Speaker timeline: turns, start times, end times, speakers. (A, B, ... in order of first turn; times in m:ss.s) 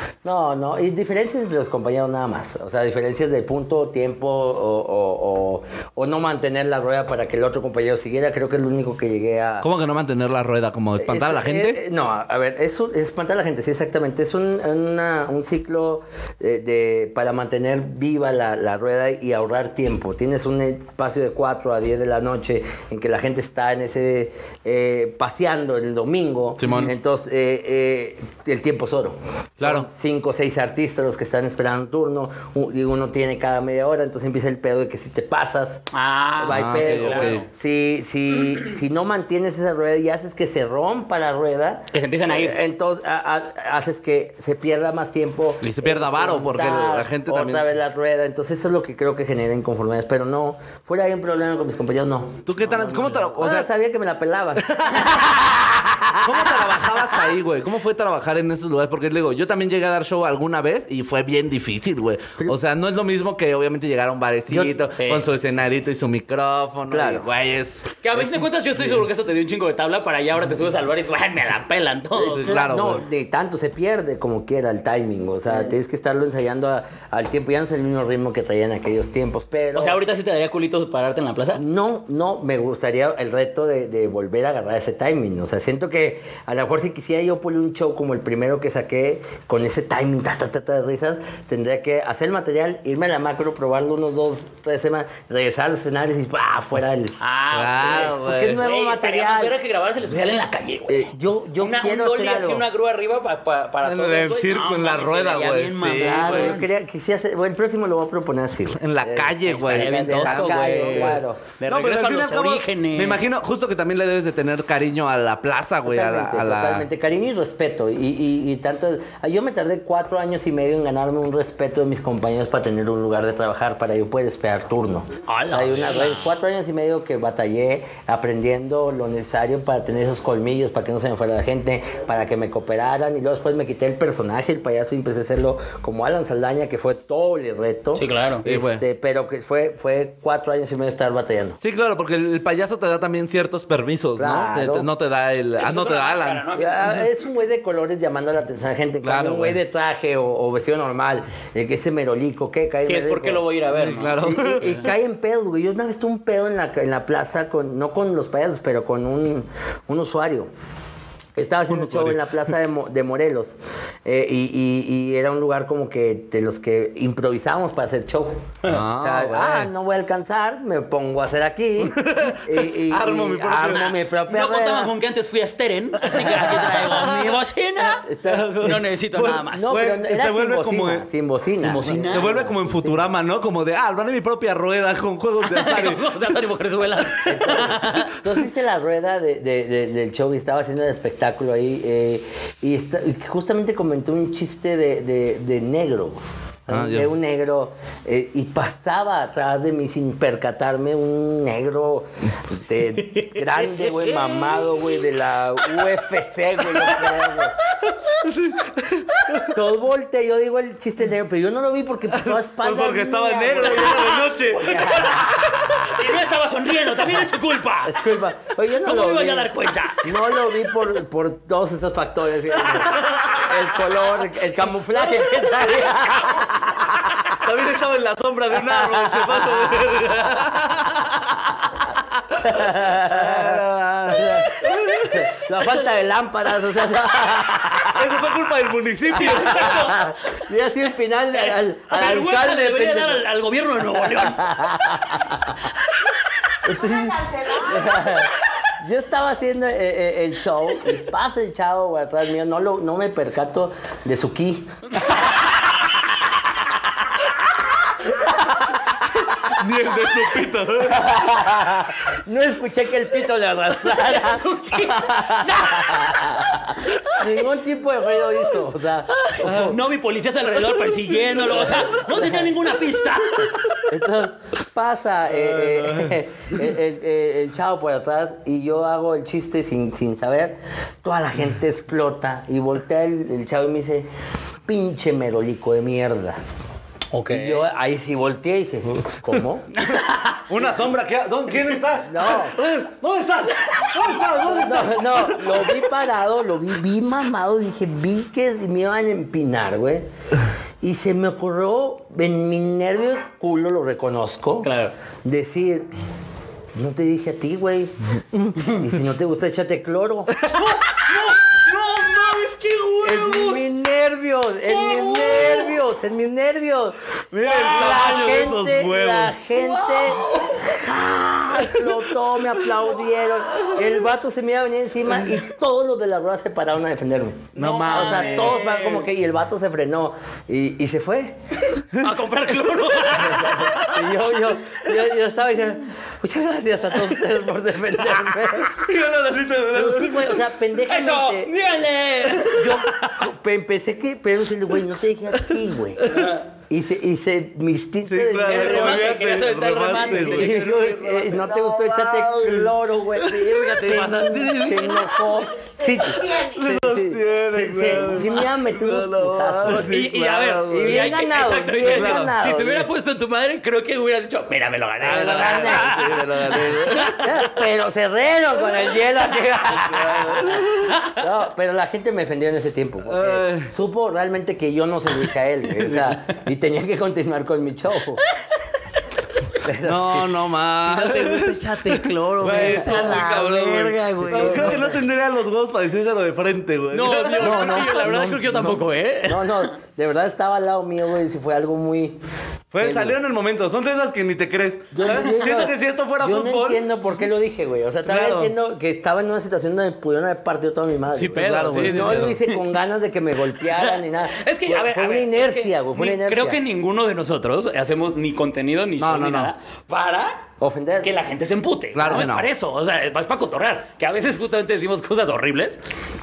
0:00.2-0:09.7 A
0:09.6-0:11.8 B
0:11.0-0:35.9 A
0:26.6-0:26.9 B
0:26.6-0:26.9 C
0:29.6-0:29.9 B
0:35.9-0:37.5 C
0:36.4-0:56.8 A
0:36.5-0:37.4 B
0:41.9-0:42.6 C
0:45.6-0:47.6 B
0:52.5-0:53.7 B
0:54.8-0:55.1 B
0:56.2-1:08.0 B
1:04.5-1:04.8 A
1:04.9-1:05.3 C
1:06.9-1:07.3 A
1:08.0-1:12.5 C
1:12.2-1:20.0 A
1:12.3-1:13.0 B
1:19.8-1:21.6 C
1:21.6-1:37.2 A
1:37.2-1:46.7 C
1:37.5-1:38.7 B
1:38.1-1:39.6 A
1:40.9-1:42.6 A
1:43.8-1:46.6 B
1:45.9-1:51.4 A
1:48.8-1:56.9 B
1:49.5-1:53.2 C
1:55.8-2:21.6 A
2:05.3-2:06.3 C
2:18.0-2:18.4 C
2:18.4-2:18.8 B
2:21.6-2:26.5 B
2:24.2-2:24.9 A
2:25.5-2:27.1 C
2:26.6-2:33.5 A
2:29.0-2:29.6 B
2:32.8-2:34.3 C
2:33.8-2:34.9 B
2:34.2-2:40.5 A
2:41.4-2:54.9 A
2:41.7-2:42.3 B
2:48.6-2:49.7 B
2:51.8-2:54.0 B
2:54.2-2:58.1 C
2:56.1-2:57.3 B
2:58.0-3:03.0 A
2:58.2-3:01.1 B
2:58.6-2:59.8 C
3:01.6-3:02.4 C
3:02.0-3:06.1 B
3:05.4-3:08.2 C
3:07.3-3:27.6 A
3:16.7-3:17.1 B
3:23.2-3:24.6 C
3:28.2-3:29.6 B
3:29.5-3:35.5 A
3:32.1-3:35.7 B
3:33.6-3:38.0 C
3:37.9-3:47.3 A
3:38.8-3:40.1 C
3:43.0-3:43.5 B
3:47.4-3:51.7 B
3:52.2-3:55.3 B
3:52.4-3:58.1 A
3:57.9-3:59.9 B
3:59.1-4:00.1 C
3:59.2-4:03.2 A
4:01.3-4:04.6 C
4:03.8-4:05.6 A
4:05.9-4:06.1 C
4:06.6-4:14.8 A
4:14.9-4:15.4 C
4:19.4-4:21.3 B
4:20.8-4:29.8 A
4:23.9-4:26.5 C
4:29.1-4:33.8 C
4:29.4-4:29.7 B
4:31.4-4:32.5 A
4:33.8-4:44.1 A
4:35.3-4:36.2 B
4:44.7-4:46.4 A
4:47.1-4:47.6 C
4:47.3-4:49.7 A
4:49.8-4:50.5 C
4:50.5-4:55.8 B
4:52.0-4:52.6 A
4:54.4-5:00.1 A
5:00.8-5:04.7 A
5:04.6-5:04.9 C
5:05.2-5:05.9 A
5:06.8-5:07.9 A
5:08.6-5:10.4 A
5:10.5-5:13.7 C
5:13.0-5:31.4 A
5:14.7-5:15.8 C
5:17.3-5:19.4 B
5:17.4-5:18.6 C
5:19.5-5:20.8 C
5:27.6-5:29.0 B
5:27.6-5:28.8 C
5:31.8-5:34.5 C
5:33.3-5:38.8 A
5:38.7-5:40.4 B
5:39.7-5:41.6 A
5:40.8-5:43.3 C
5:42.3-5:49.2 A
5:46.0-5:46.3 B
5:46.0-5:46.4 C
5:48.0-5:50.7 B
5:48.4-5:51.4 C
5:49.9-5:59.9 A
5:51.3-5:55.2 B
5:53.4-5:55.2 C
5:56.2-6:01.2 B
5:59.6-6:07.6 C
6:00.7-6:02.9 A
6:01.8-6:02.4 B
6:05.0-6:07.2 B
6:05.1-6:06.1 A
6:07.2-6:18.2 A
6:09.8-6:11.0 B
6:10.9-6:11.2 C
6:13.1-6:13.7 B
6:19.6-6:20.4 A
6:19.8-6:27.7 B
6:20.8-6:23.2 C
6:22.4-6:25.0 A
6:24.2-6:24.8 C
6:26.9-6:29.7 C
6:27.4-6:32.2 A
6:32.7-6:37.2 B
6:32.8-6:33.2 A
6:34.9-6:46.6 A
6:38.0-6:38.5 B
6:41.1-6:42.6 C
6:41.3-6:42.4 B
6:43.7-6:50.4 C
6:49.0-6:49.5 B
6:50.6-6:51.1 A
6:51.0-6:55.8 C
6:51.9-6:52.5 B